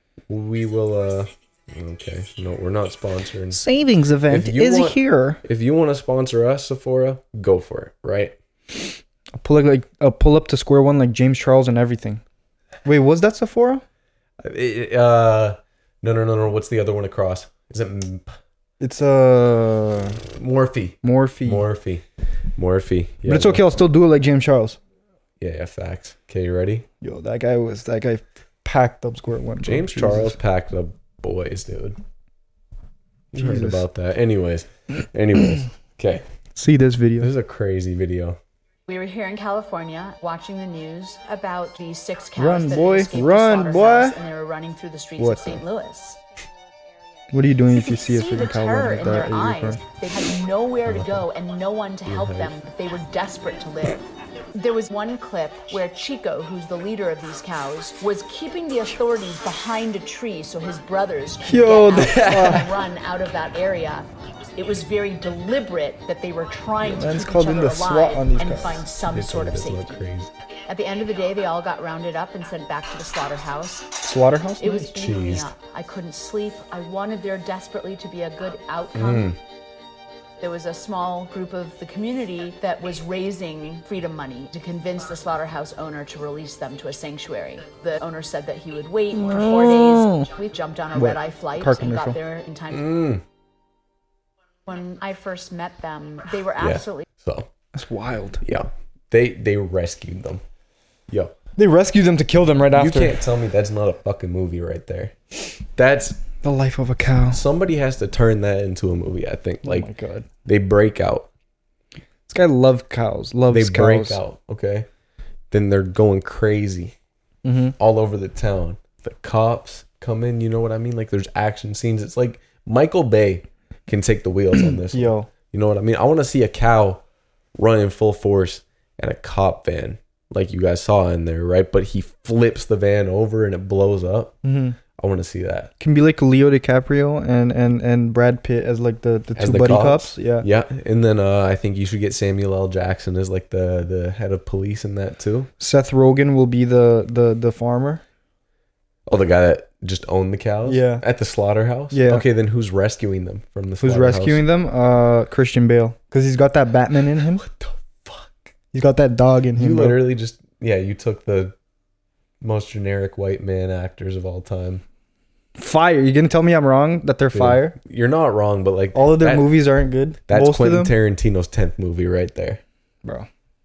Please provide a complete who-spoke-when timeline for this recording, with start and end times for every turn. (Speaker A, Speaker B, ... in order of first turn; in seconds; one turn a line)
Speaker A: 0.3-3.6
Speaker B: 3.5-5.4
Speaker A: 4.3-8.3
Speaker B: 9.4-12.2
Speaker B: 12.8-13.8
Speaker A: 14.4-18.3
Speaker B: 18.8-20.2
Speaker A: 20.3-22.0
Speaker B: 21.0-21.7
Speaker A: 22.6-23.7
Speaker B: 23.3-24.8
Speaker A: 25.4-26.9
Speaker B: 27.0-30.4
Speaker A: 29.6-32.0
Speaker A: 33.3-36.2
Speaker B: 33.4-33.8
Speaker B: 36.5-37.3
Speaker A: 37.2-38.4
Speaker C: 38.9-46.2
Speaker B: 42.4-44.2
Speaker B: 45.2-45.6
Speaker B: 47.3-49.8
Speaker C: 47.7-54.0
Speaker A: 50.9-51.2
Speaker A: 52.1-52.5
Speaker C: 54.5-70.0
Speaker B: 61.4-62.7
Speaker A: 62.0-62.7
Speaker B: 66.8-68.9
Speaker A: 69.1-70.3
Speaker C: 70.7-74.0
Speaker B: 74.0-74.9
Speaker C: 74.6-79.3
Speaker A: 74.8-75.5
Speaker A: 78.9-79.4
Speaker C: 80.4-92.9
Speaker B: 89.1-90.3
Speaker B: 91.0-92.2
Speaker A: 92.7-93.2
Speaker C: 94.7-97.1
Speaker A: 96.6-97.5
Speaker B: 97.7-98.4
Speaker A: 98.4-100.4
Speaker A: 101.1-101.3
Speaker B: 101.6-103.2
Speaker A: 102.7-106.2
Speaker B: 106.4-107.4
Speaker A: 107.3-109.9
Speaker B: 109.6-110.3
Speaker A: 110.5-111.3
Speaker B: 112.3-114.2
Speaker A: 113.5-114.9
Speaker A: 115.5-116.9
Speaker B: 117.4-117.8
Speaker A: 117.8-127.0
Speaker B: 124.9-125.3
Speaker A: 127.6-134.3
Speaker B: 134.4-134.8
Speaker A: 134.9-135.7
Speaker B: 135.8-140.5
Speaker A: 139.4-145.5
Speaker B: 145.6-148.0
Speaker A: 149.1-154.4
Speaker B: 150.7-151.0
Speaker B: 151.9-152.2
Speaker B: 153.8-157.4
Speaker A: 157.3-158.5
Speaker B: 158.7-160.0
Speaker A: 159.6-161.6
Speaker A: 162.4-164.8
Speaker B: 165.6-167.8
Speaker A: 167.3-169.5
Speaker B: 168.9-170.9
Speaker A: 170.3-172.6